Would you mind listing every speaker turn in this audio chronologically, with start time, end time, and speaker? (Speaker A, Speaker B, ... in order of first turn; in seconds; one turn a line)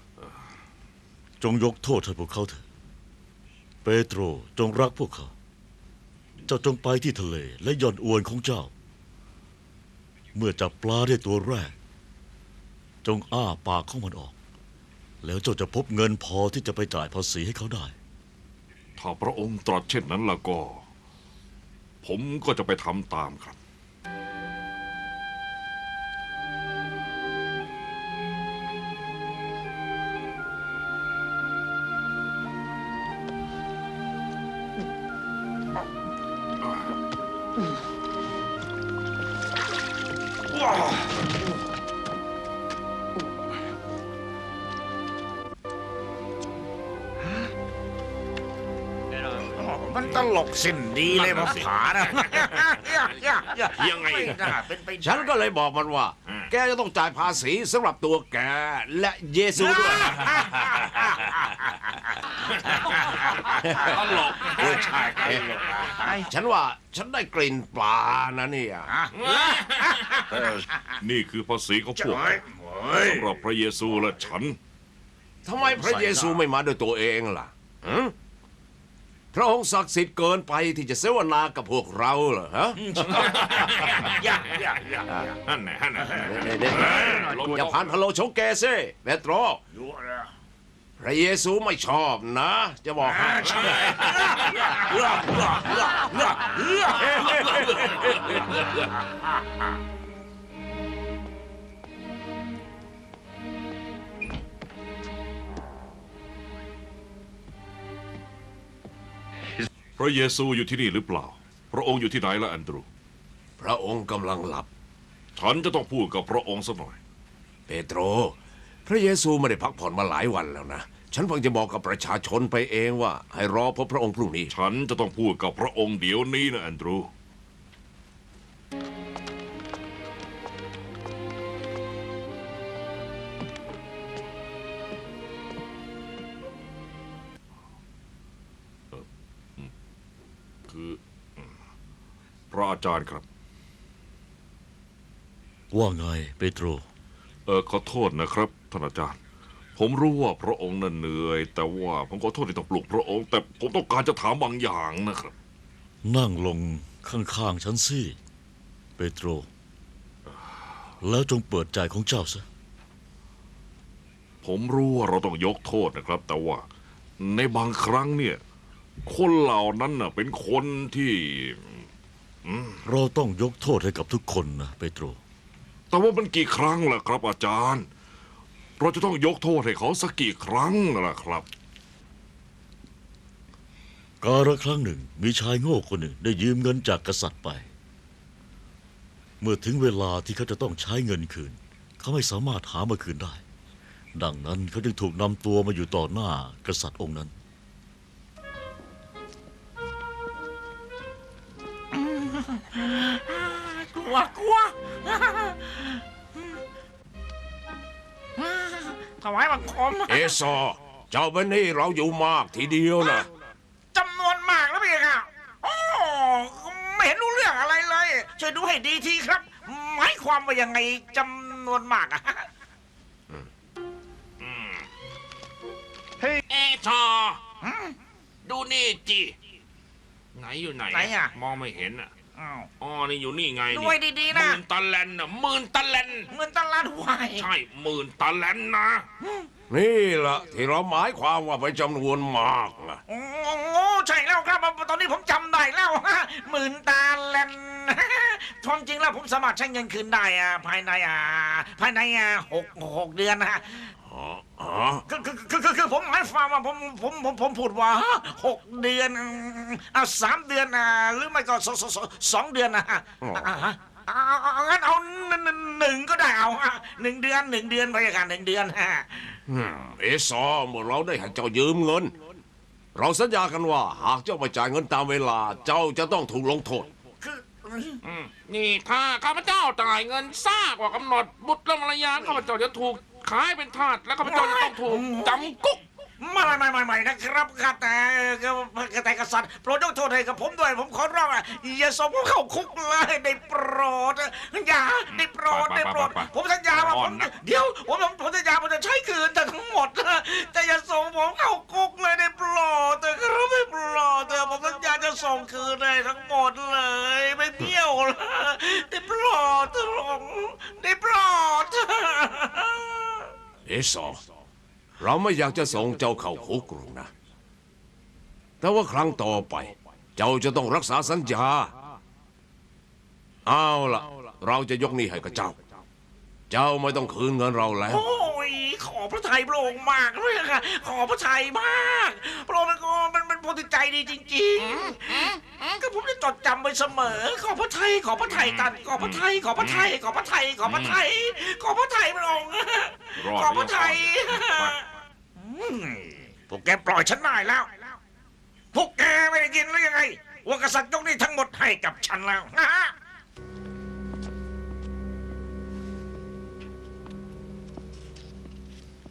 Speaker A: 1.4-2.6
Speaker A: 3.8-5.3
Speaker A: 6.4-8.7
Speaker A: 10.3-11.7
Speaker A: 13.0-14.3
Speaker A: 15.2-17.9
Speaker B: 19.0-20.8
Speaker B: 22.0-23.6
Speaker C: 49.4-55.3
Speaker D: 51.1-51.7
Speaker D: 53.7-54.5
Speaker E: 55.0-60.4
Speaker C: 59.6-63.7
Speaker E: 63.6-65.4
Speaker D: 63.7-65.0
Speaker C: 64.4-66.2
Speaker E: 66.0-68.9
Speaker C: 68.8-70.7
Speaker D: 69.1-70.2
Speaker B: 71.0-72.4
Speaker C: 72.0-73.3
Speaker B: 73.0-74.6
Speaker E: 75.4-78.1
Speaker C: 75.6-76.4
Speaker E: 79.3-83.3
Speaker C: 82.8-85.3
Speaker D: 83.3-84.0
Speaker D: 85.4-87.7
Speaker E: 86.2-89.6
Speaker C: 89.7-90.3
Speaker E: 91.0-94.0
Speaker C: 93.0-98.0
Speaker E: 97.0-97.9
Speaker B: 110.0-112.8
Speaker E: 113.6-114.7
Speaker B: 115.4-117.0
Speaker E: 117.7-124.5
Speaker B: 124.5-127.1
Speaker B: 140.7-141.5
Speaker B: 142.5-143.2
Speaker A: 145.7-146.8
Speaker B: 147.5-149.2
Speaker B: 149.8-155.3
Speaker A: 156.0-158.2
Speaker A: 159.0-159.5
Speaker A: 161.0-162.4
Speaker B: 164.4-166.7
Speaker B: 167.2-168.4
Speaker B: 169.0-171.9
Speaker B: 172.4-172.8
Speaker A: 172.8-175.2
Speaker B: 175.9-177.9
Speaker B: 178.8-181.5
Speaker A: 184.2-187.7
Speaker A: 189.4-193.4
Speaker A: 194.1-197.3
Speaker C: 201.9-206.4
Speaker C: 208.4-210.3
Speaker E: 210.1-213.3
Speaker C: 213.0-213.2
Speaker C: 213.9-222.5
Speaker D: 224.4-224.8
Speaker D: 226.5-227.4
Speaker C: 227.6-227.9
Speaker D: 228.4-229.3
Speaker D: 230.3-232.1
Speaker C: 230.9-231.3
Speaker C: 232.3-232.7
Speaker D: 232.8-236.3
Speaker C: 233.7-234.6
Speaker C: 236.3-237.5
Speaker D: 237.3-239.1
Speaker E: 239.7-243.0
Speaker C: 243.1-253.9
Speaker E: 254.1-255.0
Speaker C: 255.1-269.4
Speaker E: 263.2-263.6
Speaker E: 269.5-272.1
Speaker E: 272.9-276.9
Speaker C: 277.2-278.0
Speaker D: 278.0-285.8
Speaker C: 284.2-285.6
Speaker C: 286.2-313.1
Speaker D: 295.1-297.3
Speaker E: 313.7-314.3
Speaker E: 315.0-317.1
Speaker E: 318.6-321.7
Speaker E: 323.4-325.6
Speaker E: 326.5-328.0
Speaker C: 327.9-344.8
Speaker B: 338.4-339.8
Speaker B: 343.2-344.7
Speaker C: 345.4-347.9
Speaker C: 348.7-352.9